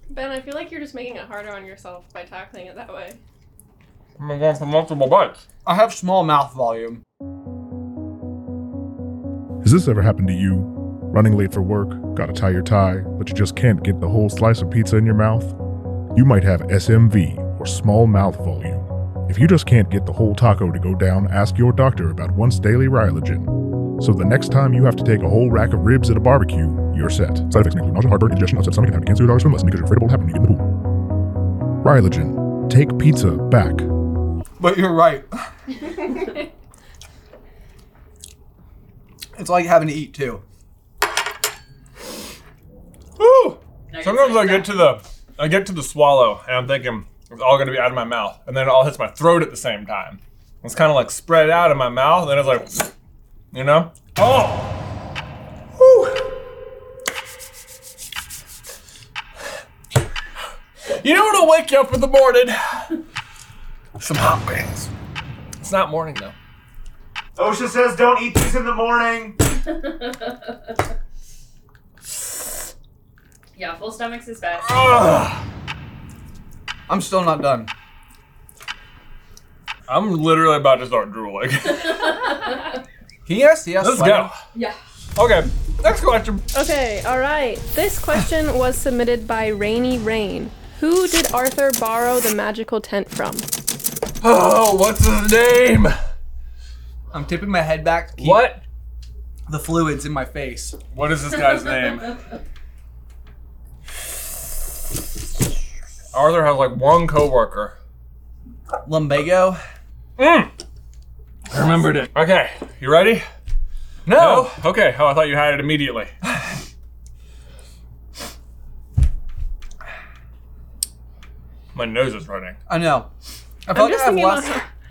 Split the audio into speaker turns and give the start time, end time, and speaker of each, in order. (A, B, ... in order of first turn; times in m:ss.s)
0:00.1-0:03.2 A
0:04.2-0:05.4 B
0:05.6-0:07.0 C
0:09.6-0:15.6 D
0:16.1-0:31.1 D
0:31.8-0:33.9 D
0:34.6-0:35.3 C
0:39.4-0:40.4 C
0:43.2-0:52.9 B
0:43.9-0:44.8 E
0:53.5-0:54.9 B
0:55.8-0:56.3 B
1:00.9-1:02.9 B
1:04.0-1:04.9 B
1:05.6-1:06.4 B
1:07.4-1:09.4 F
1:09.9-1:10.2 E
1:13.6-1:14.8 E
1:14.6-1:15.4 B
1:16.9-1:17.7 C
1:19.9-1:22.4 B
1:22.0-1:22.7 E
1:23.2-1:24.3 C
1:23.8-1:24.4 B
1:25.2-1:26.4 B
1:26.5-1:33.5 A
1:34.2-1:36.0 B
1:37.1-1:38.5 C
1:38.2-1:38.6 B
1:39.5-1:40.8 C
1:40.9-1:42.2 B
1:46.1-1:47.7 B
1:48.8-1:49.6 C
1:50.2-1:50.5 B
1:51.5-1:53.2 B
1:54.1-1:54.6 C
1:54.1-1:56.1 B
2:01.7-2:02.6 B
2:02.7-2:03.1 C
2:03.7-2:04.6 C
2:03.7-2:04.7 A